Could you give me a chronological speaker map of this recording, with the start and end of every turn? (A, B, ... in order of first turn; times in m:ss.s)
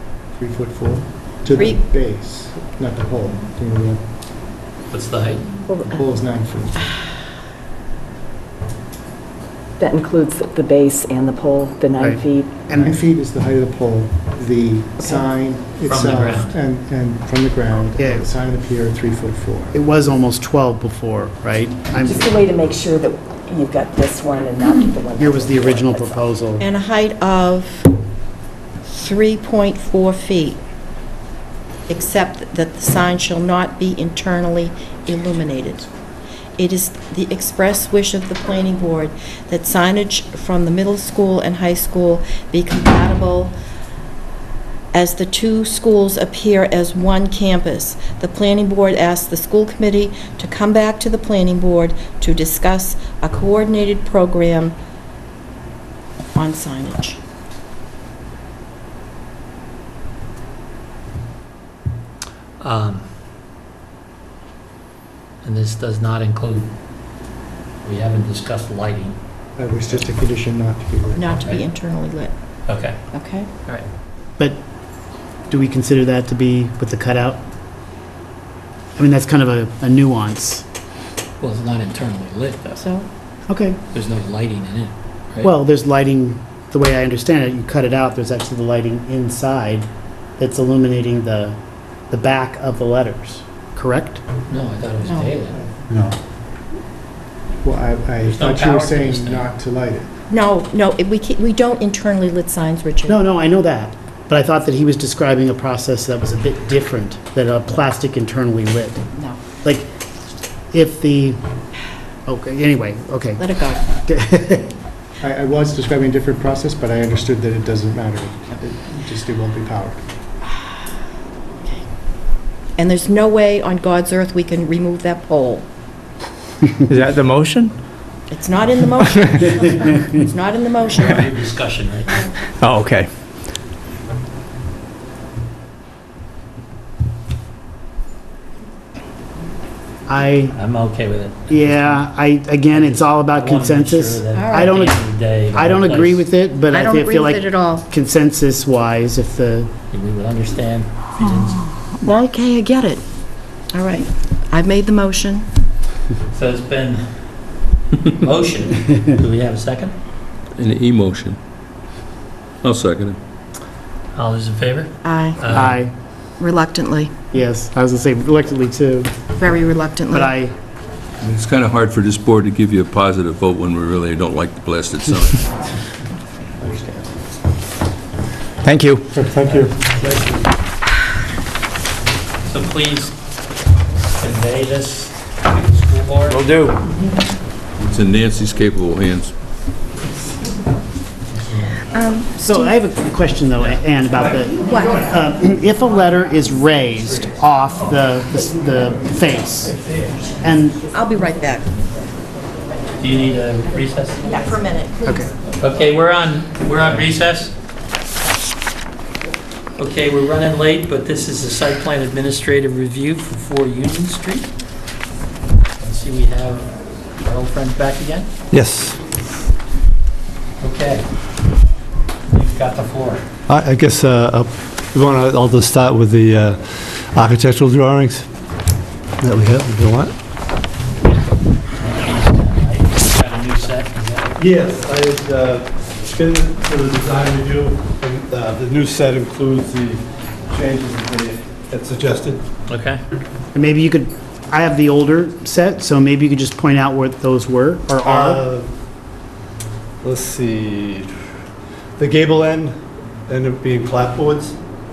0:00.4-0:04.0 A
0:01.5-0:01.8 B
0:04.9-0:05.4 C
0:05.7-0:06.0 D
0:05.9-0:06.9 A
0:09.8-0:12.7 D
0:12.0-0:13.0 E
0:12.7-0:19.8 A
0:15.0-0:15.2 D
0:15.9-0:16.5 C
0:18.0-0:18.3 E
0:19.7-0:22.4 E
0:22.0-0:26.2 D
0:25.2-0:26.7 E
0:26.6-0:27.9 B
0:28.8-0:30.6 B
0:31.9-0:35.8 B
0:36.6-0:43.6 B
0:44.9-0:54.7 B
0:56.3-0:57.2 B
1:02.6-1:03.0 C
1:05.4-1:06.7 C
1:07.8-1:09.2 C
1:09.6-1:11.4 A
1:11.1-1:12.3 B
1:12.7-1:13.0 C
1:13.1-1:13.5 B
1:15.5-1:17.4 E
1:19.0-1:20.6 E
1:21.4-1:22.8 C
1:23.5-1:23.8 E
1:23.9-1:25.5 C
1:25.4-1:31.6 E
1:32.1-1:34.2 E
1:34.5-1:35.6 C
1:35.0-1:35.3 B
1:35.5-1:36.1 A
1:37.6-1:40.1 A
1:38.2-1:39.5 C
1:40.3-1:43.2 B
1:43.0-1:49.0 E
1:49.1-1:49.4 B
1:49.6-1:49.9 E
1:50.7-1:51.4 E
1:52.2-1:54.7 E
1:53.4-1:53.9 B
1:55.2-2:00.0 A
2:02.8-2:05.6 B
2:06.8-2:07.7 F
2:08.3-2:11.3 B
2:11.0-2:12.3 C
2:12.6-2:13.3 F
2:20.1-2:20.6 E
2:20.5-2:22.2 C
2:21.5-2:29.7 E
2:22.7-2:26.3 C
2:24.3-2:24.8 B
2:26.7-2:27.8 B
2:29.9-2:31.7 C
2:31.2-2:33.0 B
2:33.7-2:35.5 B
2:36.3-2:37.0 C
2:38.0-2:39.9 C
2:40.6-2:41.4 G
2:42.6-2:43.2 G
2:44.1-2:45.8 C
2:45.0-2:45.7 B
2:45.5-2:45.9 E
2:46.4-2:47.1 B
2:47.3-2:49.1 E
2:49.4-2:50.3 B
2:50.1-2:50.5 E
2:51.2-2:55.4 G
2:56.6-2:57.1 A
2:58.6-2:59.1 F
2:59.1-2:59.7 A
2:59.4-3:00.3 C
3:02.4-3:03.2 C
3:04.2-3:06.4 C
3:06.3-3:06.7 F
3:07.9-3:09.3 G
3:11.9-3:12.8 B
3:12.4-3:19.8 E
3:14.6-3:15.1 B
3:20.4-3:20.8 E
3:20.9-3:21.7 B
3:23.0-3:24.4 C
3:24.2-3:25.1 B
3:25.0-3:25.3 E
3:25.6-3:27.5 C
3:29.8-3:34.5 C
3:35.8-3:36.7 C
3:37.2-3:38.3 C
3:38.5-3:39.0 H
3:40.6-3:41.1 C
3:42.3-3:43.2 C
3:43.5-3:48.3 H
3:49.2-3:50.1 H
3:51.8-3:54.3 C
3:54.4-4:02.4 H
4:02.7-4:03.0 C
4:03.5-4:08.5 E
4:08.0-4:08.7 H
4:10.0-4:11.1 H
4:12.0-4:12.8 H
4:13.3-4:14.6 H